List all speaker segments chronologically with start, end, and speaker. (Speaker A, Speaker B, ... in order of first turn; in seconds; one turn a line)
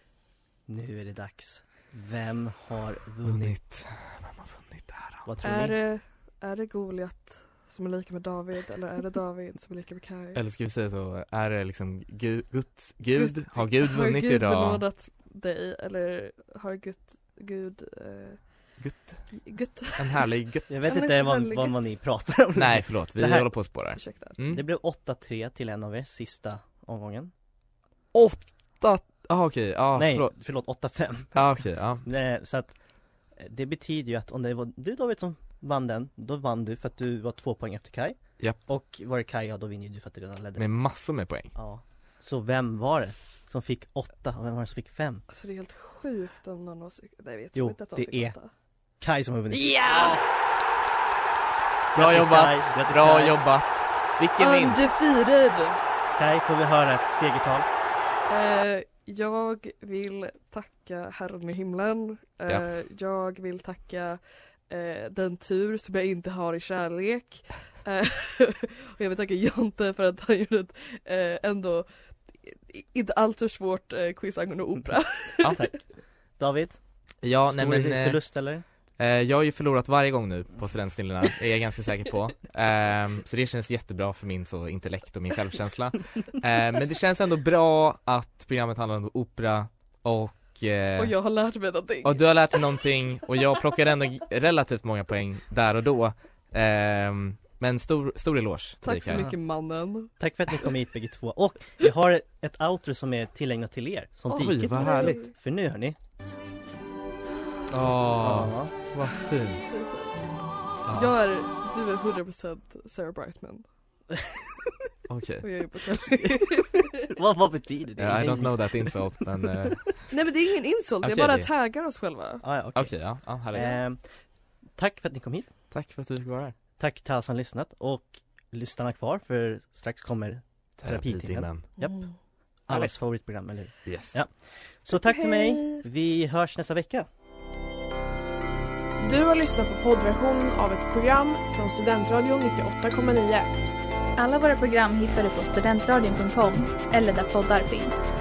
Speaker A: 0.7-3.5
Speaker B: 3.2-5.3
Speaker A: 5.2-5.8
Speaker C: 5.4-10.4
Speaker B: 10.3-14.8
Speaker C: 13.1-18.6
Speaker B: 18.8-19.4
Speaker C: 19.4-20.2
Speaker B: 20.0-21.0
Speaker A: 20.7-23.5
Speaker C: 20.8-21.9
Speaker B: 22.6-24.6
Speaker C: 24.0-24.4
Speaker A: 24.4-27.3
Speaker B: 28.1-30.3
Speaker A: 30.0-31.5
Speaker B: 31.3-32.0
Speaker A: 32.0-32.8
Speaker A: 33.4-40.7
Speaker B: 40.6-41.5
Speaker A: 41.5-45.2
Speaker C: 45.3-48.5
Speaker A: 47.5-48.4
Speaker A: 49.0-50.2
Speaker C: 49.5-50.2
Speaker A: 51.9-53.4
Speaker B: 52.0-54.9
Speaker C: 54.4-55.8
Speaker A: 56.2-57.7
Speaker C: 58.3-75.6
Speaker A: 75.5-76.8
Speaker B: 77.2-91.2
Speaker A: 77.5-78.6
Speaker C: 91.0-92.6
Speaker B: 92.0-99.3
Speaker C: 98.8-100.1
Speaker A: 99.1-99.4
Speaker A: 100.2-106.0
Speaker B: 104.3-105.2
Speaker C: 104.8-105.3
Speaker B: 107.7-109.7
Speaker A: 108.2-108.8
Speaker C: 109.7-110.1
Speaker B: 110.9-111.1
Speaker C: 110.9-113.7
Speaker B: 115.1-115.5
Speaker C: 115.4-117.0
Speaker A: 116.4-118.9
Speaker B: 118.0-120.0
Speaker C: 120.1-122.4
Speaker B: 121.0-121.5
Speaker A: 122.4-124.2
Speaker B: 122.8-123.8
Speaker A: 124.8-125.5
Speaker B: 125.7-126.5
Speaker A: 126.8-132.0
Speaker B: 130.8-131.7
Speaker C: 131.8-132.1
Speaker A: 132.7-137.1
Speaker B: 133.8-134.2
Speaker C: 134.9-135.8
Speaker D: 139.0-143.5
Speaker E: 144.2-148.1